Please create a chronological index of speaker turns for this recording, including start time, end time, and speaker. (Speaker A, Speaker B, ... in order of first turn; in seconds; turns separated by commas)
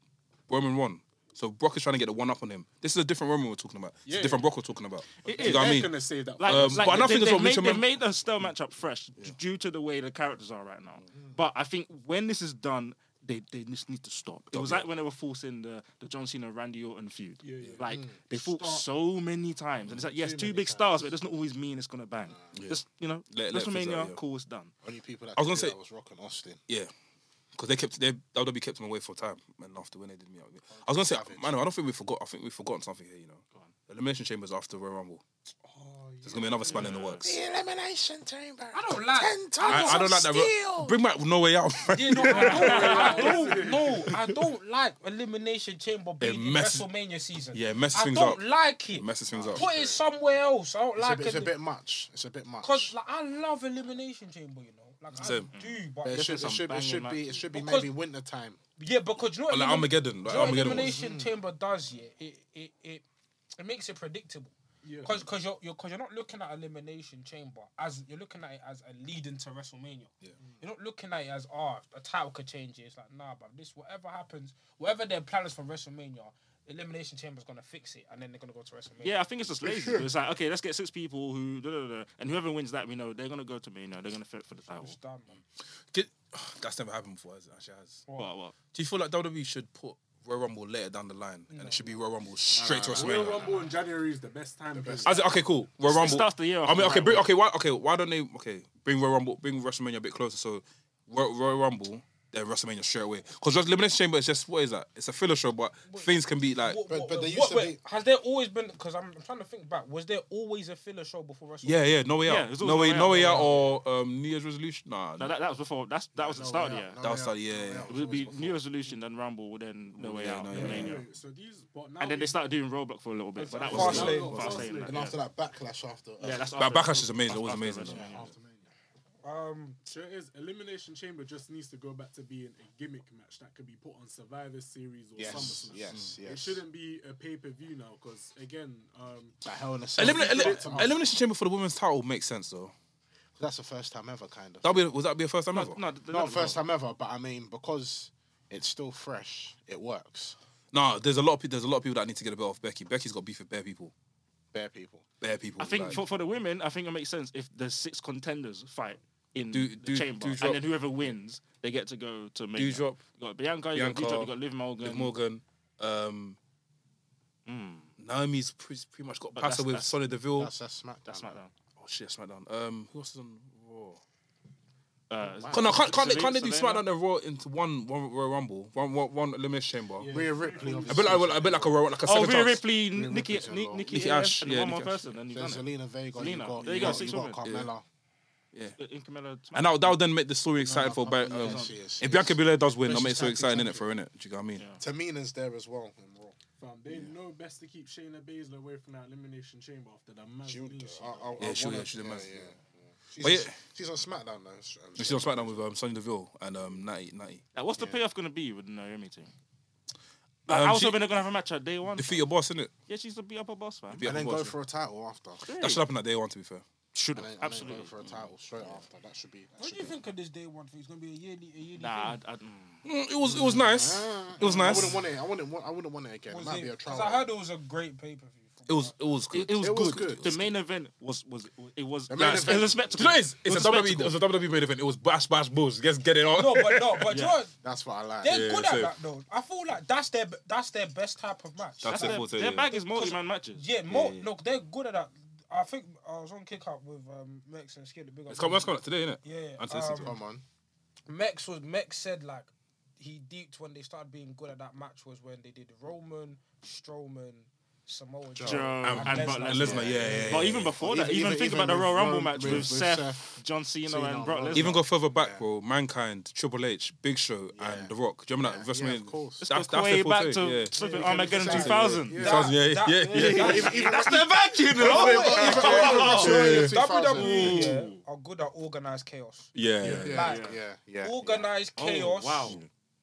Speaker A: 0.5-7.9, Speaker B: 4.0-4.5, Speaker C: 5.2-5.8, Speaker B: 5.2-7.2, Speaker C: 6.4-24.7, Speaker A: 14.5-14.9, Speaker B: 17.4-17.9, Speaker D: 17.8-18.2, Speaker E: 18.3-18.8, Speaker D: 20.1-21.1, Speaker D: 22.2-22.5, Speaker A: 22.5-24.2, Speaker D: 24.8-26.6, Speaker A: 25.4-25.8, Speaker A: 27.6-35.2, Speaker D: 30.7-31.6, Speaker B: 35.6-36.9, Speaker A: 36.2-37.3, Speaker C: 36.7-37.3, Speaker D: 37.2-40.9, Speaker E: 38.7-40.1, Speaker A: 39.6-43.1, Speaker E: 41.9-51.6, Speaker B: 42.2-44.1, Speaker C: 42.4-43.5, Speaker A: 44.1-44.4, Speaker A: 46.2-46.9, Speaker A: 47.5-49.7, Speaker D: 49.3-50.0, Speaker D: 51.0-52.9, Speaker E: 52.6-56.2, Speaker A: 55.2-55.5, Speaker C: 55.5-57.4, Speaker D: 56.0-58.6, Speaker E: 57.5-57.9, Speaker E: 58.8-63.0, Speaker A: 59.5-61.0, Speaker D: 60.3-61.4, Speaker E: 63.6-79.2, Speaker B: 64.8-65.2, Speaker C: 79.0-85.0, Speaker D: 79.6-80.1, Speaker E: 84.8-85.4, Speaker A: 85.9-88.0, Speaker C: 88.1-88.5, Speaker A: 88.7-93.5, Speaker E: 91.5-91.9, Speaker B: 92.6-95.2, Speaker D: 92.6-93.7, Speaker D: 94.7-95.2, Speaker A: 95.0-106.8, Speaker C: 95.8-97.3, Speaker E: 105.9-111.9, Speaker D: 106.8-107.8, Speaker A: 111.6-115.3, Speaker C: 112.3-113.6, Speaker C: 115.2-117.0, Speaker D: 116.2-118.6, Speaker A: 117.0-117.9, Speaker C: 117.9-121.0, Speaker A: 120.0-121.0, Speaker B: 120.5-122.4, Speaker E: 120.5-120.9, Speaker C: 122.0-125.2, Speaker B: 123.4-125.0, Speaker E: 123.5-124.3, Speaker A: 123.7-124.7, Speaker D: 123.7-126.5, Speaker C: 126.2-128.3, Speaker A: 126.6-128.1, Speaker D: 127.8-128.7, Speaker E: 129.2-129.8, Speaker B: 129.9-139.4, Speaker D: 135.2-136.6, Speaker D: 139.4-141.0, Speaker A: 140.0-142.7, Speaker B: 140.0-141.0, Speaker D: 143.4-144.8, Speaker A: 144.6-145.8, Speaker C: 145.5-146.6, Speaker D: 146.1-150.4, Speaker A: 150.7-153.9, Speaker D: 154.5-155.1, Speaker A: 155.2-156.0, Speaker C: 155.6-165.2, Speaker A: 159.5-160.6, Speaker A: 162.6-163.0, Speaker A: 163.7-166.4, Speaker C: 167.5-167.9, Speaker A: 168.0-170.5, Speaker C: 169.4-169.9, Speaker D: 170.3-171.4, Speaker C: 171.1-171.5, Speaker A: 171.8-174.0, Speaker C: 175.1-176.8, Speaker D: 175.2-176.0, Speaker A: 175.5-180.1, Speaker B: 180.0-181.3, Speaker D: 180.1-181.8, Speaker A: 180.8-182.6, Speaker C: 182.1-187.4, Speaker D: 182.9-184.0, Speaker A: 183.9-185.0, Speaker D: 185.3-187.8, Speaker A: 186.7-187.7, Speaker C: 188.8-189.9, Speaker A: 189.5-194.7, Speaker D: 190.6-193.9, Speaker C: 191.4-191.7, Speaker C: 194.6-194.8, Speaker D: 194.8-196.4, Speaker B: 196.6-201.4, Speaker D: 196.9-197.1, Speaker D: 200.5-205.6, Speaker A: 201.4-202.5, Speaker A: 203.2-203.6, Speaker A: 205.0-207.4, Speaker C: 207.5-209.3, Speaker D: 207.8-208.0, Speaker A: 210.5-211.0, Speaker C: 210.5-212.2, Speaker A: 212.0-212.7, Speaker C: 212.9-214.1, Speaker A: 213.9-214.6, Speaker D: 214.0-215.5, Speaker C: 215.5-215.8, Speaker A: 215.6-216.7, Speaker C: 216.9-217.9, Speaker D: 217.1-220.0, Speaker A: 218.0-218.3, Speaker E: 219.6-222.2, Speaker C: 221.8-222.8, Speaker A: 222.8-225.0, Speaker D: 223.2-227.2, Speaker C: 224.4-224.9, Speaker E: 226.3-228.9, Speaker A: 228.7-230.5, Speaker C: 229.3-234.2, Speaker D: 229.6-230.3, Speaker D: 232.1-233.2, Speaker A: 232.2-237.1, Speaker E: 236.4-237.5, Speaker C: 237.1-237.4, Speaker D: 237.6-238.4, Speaker E: 238.2-250.2, Speaker A: 238.3-238.9, Speaker A: 241.8-242.7, Speaker C: 241.9-243.6, Speaker A: 243.9-244.3, Speaker A: 248.3-250.2, Speaker D: 250.0-250.4, Speaker E: 251.1-260.0, Speaker D: 258.4-258.7, Speaker C: 258.4-264.7, Speaker A: 258.8-260.8, Speaker D: 259.6-263.4, Speaker A: 262.4-262.7, Speaker D: 263.9-265.4, Speaker A: 264.5-270.7, Speaker D: 267.6-269.4, Speaker C: 269.4-272.2, Speaker B: 270.8-271.7, Speaker D: 270.8-272.5, Speaker A: 271.5-274.0, Speaker E: 272.1-279.5, Speaker C: 273.1-278.0, Speaker D: 273.2-277.7, Speaker A: 274.9-276.7, Speaker A: 279.6-280.1, Speaker C: 279.9-280.5, Speaker D: 279.9-281.5, Speaker E: 280.1-282.6, Speaker C: 281.8-282.6